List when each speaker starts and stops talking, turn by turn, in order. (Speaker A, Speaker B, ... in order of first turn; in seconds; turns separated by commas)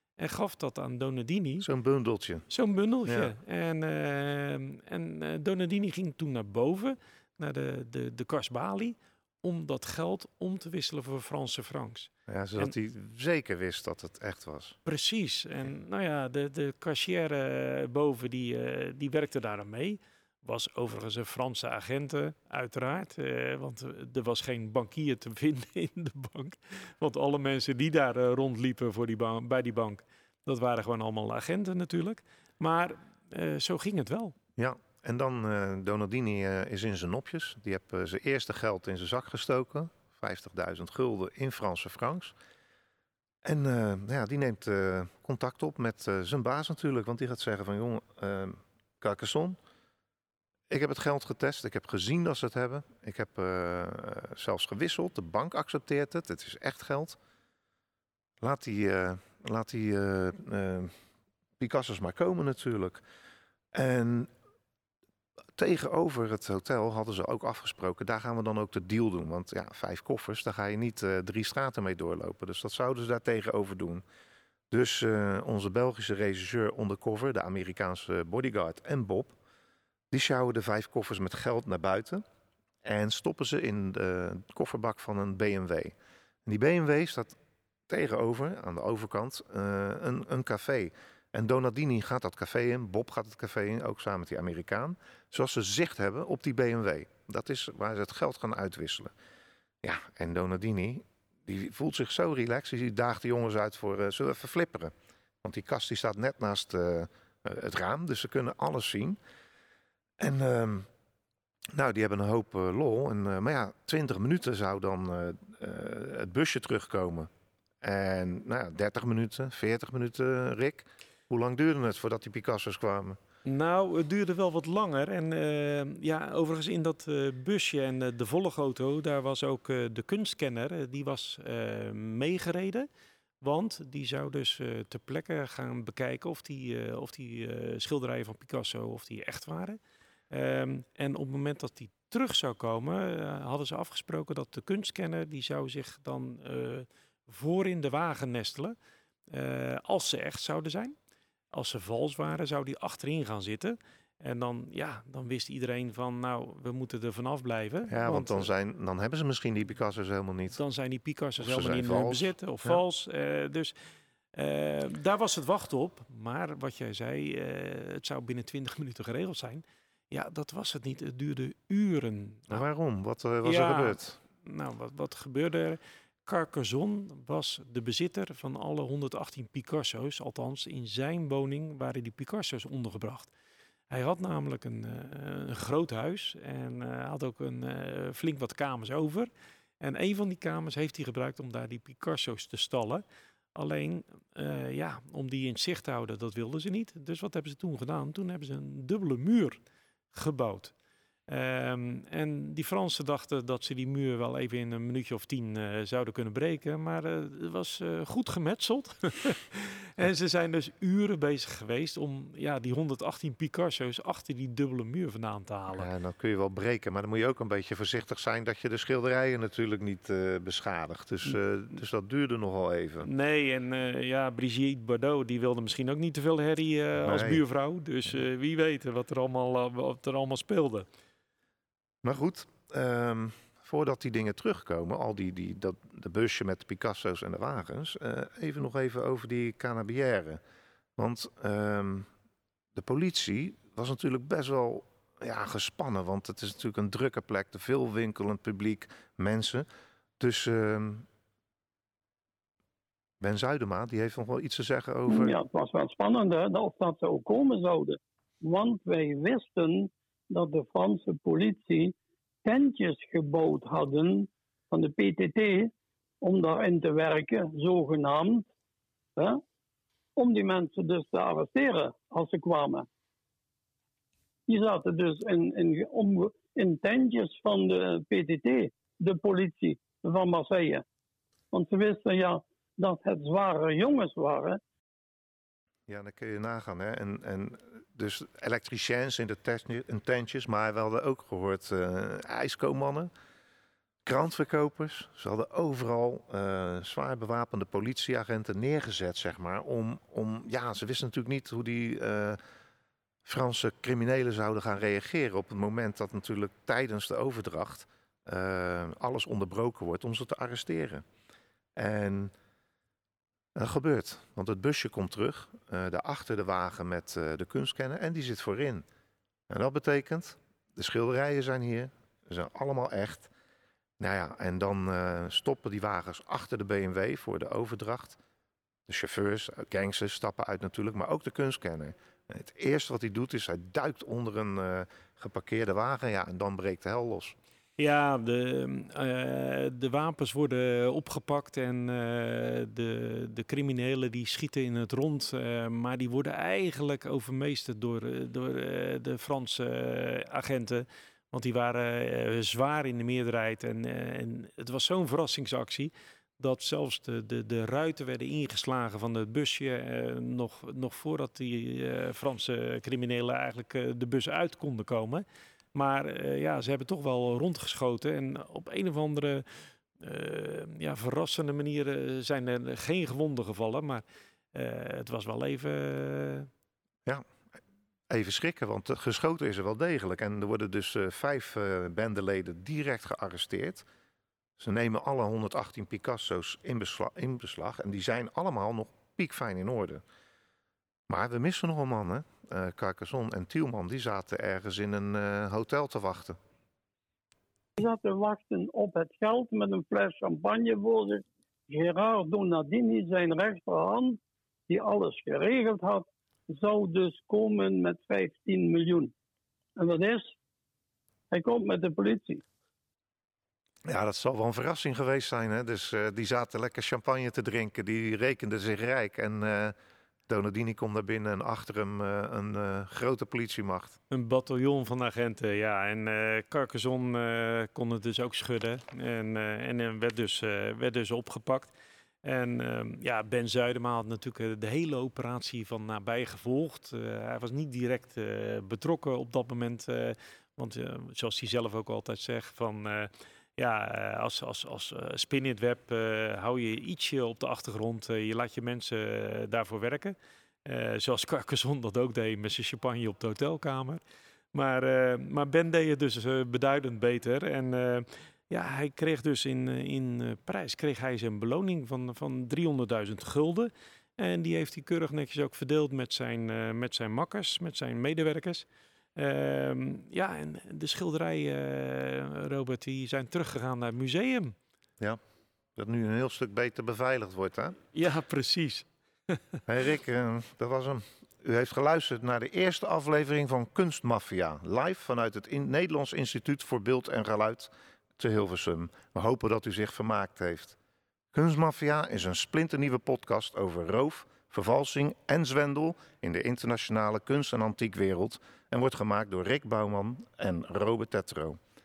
Speaker A: 0.2-1.7, Speaker B: 1.6-2.5, Speaker A: 2.5-12.7, Speaker B: 3.0-3.3, Speaker B: 12.3-14.8, Speaker A: 14.8-34.3, Speaker B: 34.6-42.3, Speaker B: 43.4-49.6, Speaker B: 50.7-57.2, Speaker B: 58.4-60.9, Speaker B: 61.6-63.0, Speaker B: 63.7-64.3, Speaker B: 65.5-74.0, Speaker B: 74.7-79.3, Speaker B: 80.1-82.2, Speaker B: 82.8-85.9, Speaker B: 86.4-87.3, Speaker B: 87.9-99.1, Speaker B: 99.8-109.2, Speaker B: 110.2-110.9, Speaker B: 111.7-117.3, Speaker B: 117.8-123.2, Speaker A: 123.4-132.9, Speaker A: 133.4-139.8, Speaker A: 140.3-148.7, Speaker A: 149.3-150.9, Speaker A: 151.5-158.5, Speaker B: 157.9-160.6, Speaker A: 160.5-163.7, Speaker B: 161.4-162.8, Speaker A: 164.3-172.6, Speaker B: 172.5-174.2, Speaker A: 173.4-183.3, Speaker A: 183.9-189.3, Speaker A: 189.8-193.0, Speaker A: 193.5-199.6, Speaker A: 200.1-200.7, Speaker A: 201.3-215.9, Speaker B: 215.7-223.1, Speaker A: 223.0-230.8, Speaker B: 227.0-227.4, Speaker B: 232.0-240.4, Speaker B: 241.0-242.1, Speaker B: 242.7-249.7, Speaker B: 250.2-251.1, Speaker B: 253.2-255.4, Speaker C: 255.1-268.5, Speaker C: 269.1-269.4, Speaker C: 270.1-272.9, Speaker C: 274.5-280.8, Speaker C: 281.5-284.6, Speaker B: 285.9-293.1, Speaker B: 294.0-302.4, Speaker B: 303.2-311.0, Speaker B: 311.8-312.3, Speaker B: 313.5-318.8, Speaker B: 319.5-323.3, Speaker B: 324.0-328.2, Speaker B: 328.9-337.4, Speaker A: 337.8-376.5, Speaker B: 378.1-383.9, Speaker B: 384.6-390.0, Speaker B: 391.1-396.4, Speaker C: 397.8-409.1, Speaker C: 409.8-410.3, Speaker C: 411.3-412.4, Speaker B: 413.8-419.7, Speaker B: 420.3-424.0, Speaker A: 424.1-431.7, Speaker A: 432.2-454.0, Speaker A: 454.5-474.5, Speaker B: 475.8-477.8, Speaker A: 477.9-479.4, Speaker B: 479.7-490.8, Speaker B: 491.3-501.6